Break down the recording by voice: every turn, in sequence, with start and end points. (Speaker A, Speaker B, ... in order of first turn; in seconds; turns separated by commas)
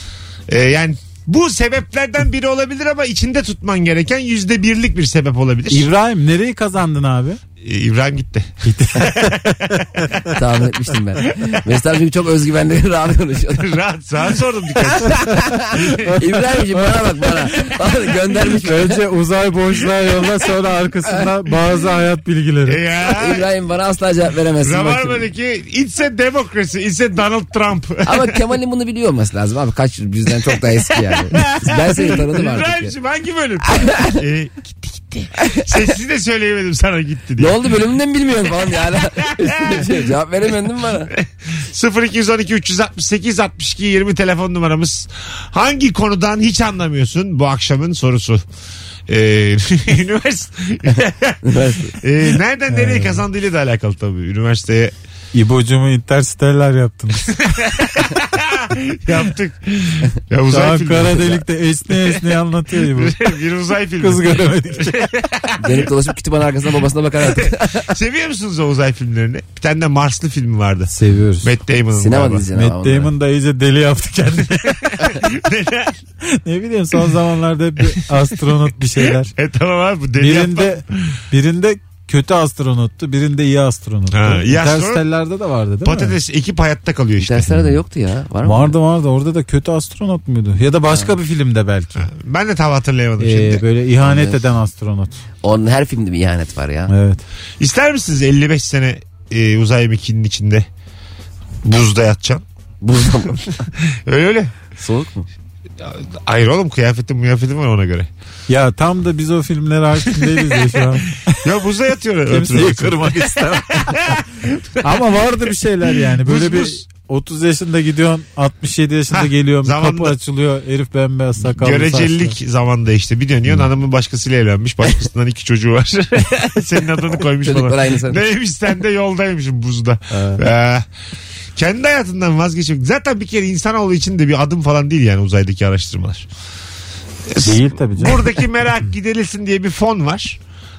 Speaker A: 0.5-5.9, Speaker B: 5.7-7.4, Speaker A: 7.6-9.4, Speaker B: 8.6-10.3, Speaker C: 10.3-13.7, Speaker A: 13.6-15.2, Speaker C: 15.1-15.6, Speaker B: 15.7-22.8, Speaker C: 16.2-19.0, Speaker A: 22.7-23.4, Speaker C: 23.1-25.2, Speaker A: 24.6-28.3, Speaker C: 28.0-32.9, Speaker A: 31.1-37.6, Speaker C: 33.7-34.1, Speaker C: 35.4-35.8, Speaker C: 37.4-41.1, Speaker A: 39.3-40.0, Speaker A: 41.1-48.4, Speaker A: 49.1-54.9, Speaker C: 51.4-52.0, Speaker B: 52.7-53.2, Speaker B: 55.3-57.4, Speaker A: 57.3-62.2, Speaker B: 60.5-63.1, Speaker A: 62.9-65.9, Speaker B: 64.0-65.0, Speaker C: 65.6-67.9, Speaker A: 67.3-72.4, Speaker B: 70.9-71.5, Speaker C: 71.9-73.1, Speaker B: 72.5-75.2, Speaker A: 75.0-76.0, Speaker B: 76.3-79.3, Speaker A: 79.3-80.8, Speaker B: 80.2-86.1, Speaker A: 84.1-85.0, Speaker A: 85.8-87.7, Speaker C: 87.2-88.7, Speaker B: 88.4-92.1, Speaker C: 90.9-91.1, Speaker A: 92.0-93.6, Speaker B: 93.2-95.2, Speaker C: 94.0-94.4, Speaker C: 95.4-96.9, Speaker B: 96.9-97.2, Speaker A: 97.6-100.7, Speaker A: 101.6-102.4, Speaker C: 102.8-103.5, Speaker A: 103.9-104.5, Speaker C: 104.8-105.3, Speaker A: 105.8-108.1, Speaker B: 108.5-111.4, Speaker A: 111.4-114.7, Speaker B: 112.3-114.2, Speaker B: 114.8-122.3, Speaker A: 116.1-116.8, Speaker A: 119.1-120.2, Speaker A: 121.5-130.8, Speaker C: 127.4-128.2, Speaker B: 130.1-130.4, Speaker A: 131.6-136.3, Speaker A: 137.3-140.4, Speaker B: 137.4-138.3